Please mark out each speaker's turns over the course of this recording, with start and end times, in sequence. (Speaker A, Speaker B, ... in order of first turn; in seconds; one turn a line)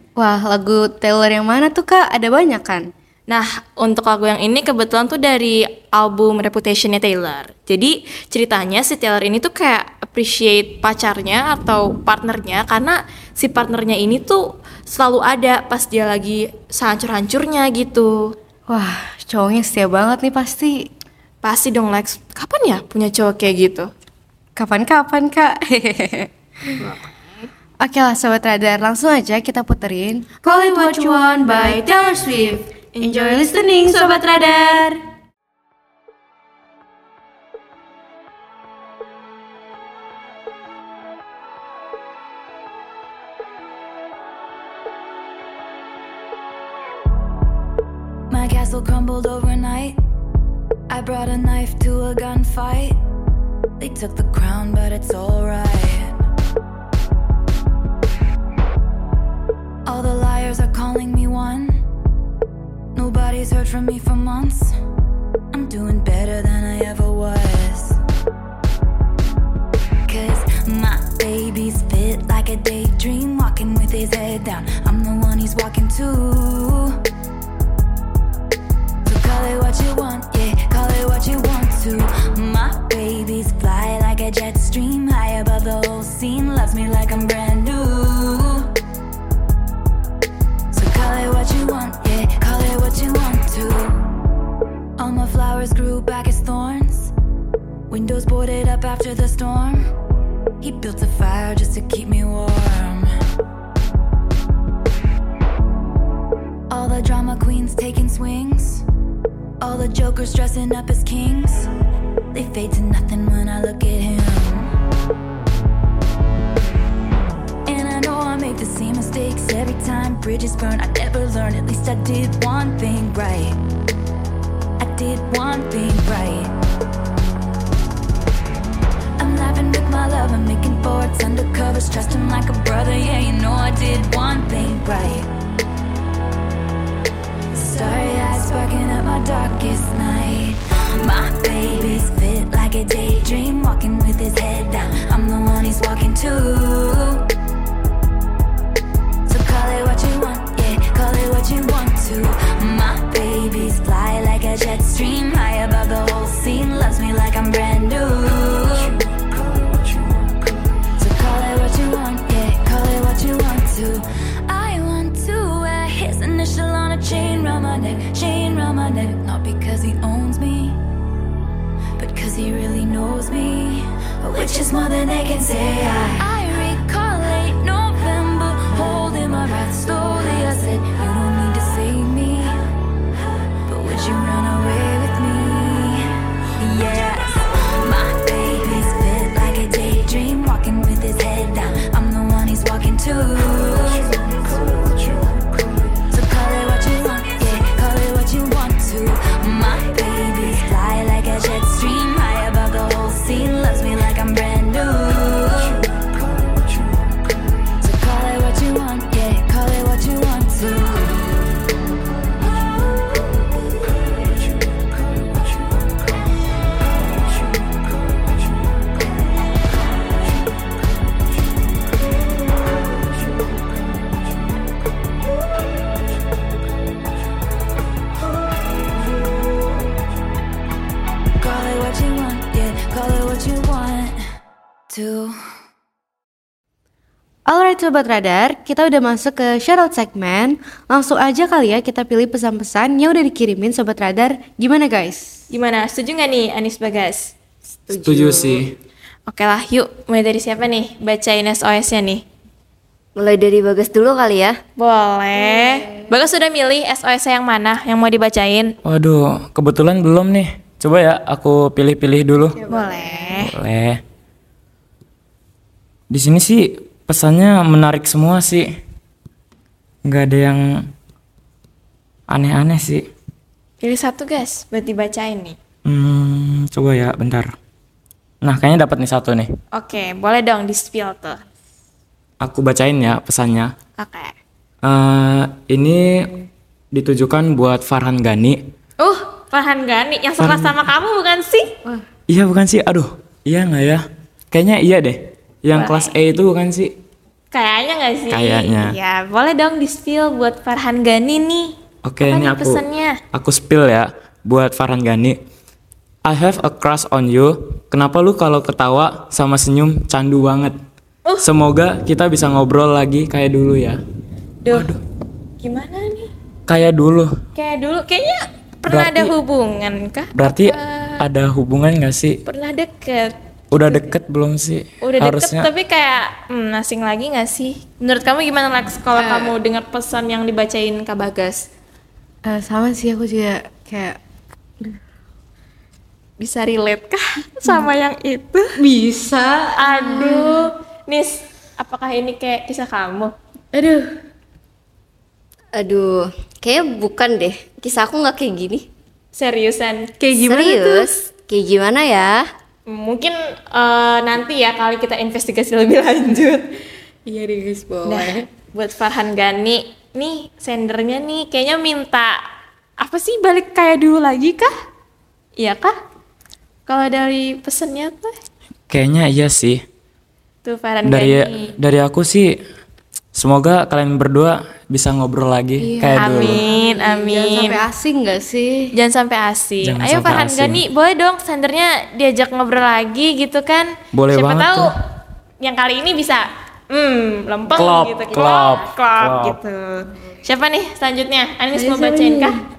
Speaker A: 0.2-2.9
Speaker B: 3.3-18.3
Speaker A: 18.7-20.9
Speaker B: 21.4-23.9
Speaker A: 24.6-26.8
Speaker B: 26.7-27.5
Speaker A: 27.8-35.0
Speaker B: 30.4-34.9
Speaker C: 48.3-50.0
Speaker C: 50.9-53.0
Speaker C: 53.8-56.2
Speaker C: 59.9-61.8
Speaker C: 62.9-64.7
Speaker C: 65.5-68.0
Speaker C: 70.1-77.0
Speaker C: 79.0-88.7
Speaker C: 90.7-94.0
Speaker C: 95.0-97.1
Speaker C: 97.9-99.9
Speaker C: 100.6-103.1
Speaker C: 106.7-108.8
Speaker C: 109.6-111.7
Speaker C: 112.3-114.7
Speaker C: 117.7-123.6
Speaker C: 124.8-126.5
Speaker C: 129.2-135.3
Speaker C: 137.5-147.3
Speaker C: 149.3-159.0
Speaker C: 161.0-170.8
Speaker C: 172.0-182.6
Speaker C: 183.7-194.8
Speaker C: 196.1-205.9
Speaker C: 207.8-211.2
Speaker C: 231.4-234.2
Speaker C: 234.9-235.3
Speaker A: 237.4-245.4
Speaker B: 245.5-247.3
Speaker A: 247.9-248.6
Speaker D: 247.9-248.8
Speaker B: 249.3-252.2
Speaker E: 253.2-254.6
Speaker B: 254.8-258.7
Speaker A: 255.3-256.1
Speaker D: 258.8-262.6
Speaker A: 262.4-263.4
Speaker B: 262.7-263.5
Speaker D: 263.4-264.0
Speaker D: 266.1-268.8
Speaker D: 270.1-270.8
Speaker D: 272.3-273.1
Speaker B: 273.8-275.6
Speaker D: 275.8-277.5
Speaker D: 278.4-279.5
Speaker B: 279.7-281.4
Speaker D: 282.4-283.7
Speaker B: 284.0-284.3
Speaker D: 284.8-286.3
Speaker D: 286.9-288.6
Speaker B: 289.0-291.7
Speaker D: 290.4-290.8
Speaker D: 292.3-296.9
Speaker B: 295.7-296.1
Speaker B: 297.5-303.2
Speaker D: 298.3-298.9
Speaker D: 302.0-305.4
Speaker D: 306.2-310.8
Speaker D: 311.4-314.0
Speaker B: 314.6-314.9
Speaker D: 314.7-315.0
Speaker B: 315.6-316.3
Speaker D: 316.7-317.4
Speaker B: 317.5-321.2
Speaker D: 318.9-319.3
Speaker D: 320.4-322.4
Speaker B: 322.4-324.1
Speaker D: 323.7-325.7
Speaker B: 325.0-331.7
Speaker A: 329.1-329.6
Speaker A: 332.4-334.2
Speaker B: 336.4-338.7
Speaker A: 338.8-340.7
Speaker B: 339.8-343.3
Speaker A: 343.7-344.1
Speaker E: 345.7-348.9
Speaker B: 349.3-350.1
Speaker A: 350.2-351.1
Speaker E: 350.4-352.5
Speaker B: 352.9-356.6
Speaker A: 357.2-358.5
Speaker B: 358.0-362.4
Speaker B: 363.0-364.7
Speaker B: 365.6-365.9
Speaker B: 366.9-368.3
Speaker D: 368.9-369.8
Speaker B: 370.6-371.7
Speaker D: 371.0-372.6
Speaker D: 373.3-376.6
Speaker A: 375.8-378.9
Speaker B: 376.1-377.8
Speaker B: 378.9-384.9
Speaker D: 379.8-380.8
Speaker D: 384.1-384.9
Speaker B: 385.6-392.6
Speaker D: 387.7-389.6
Speaker A: 391.7-392.6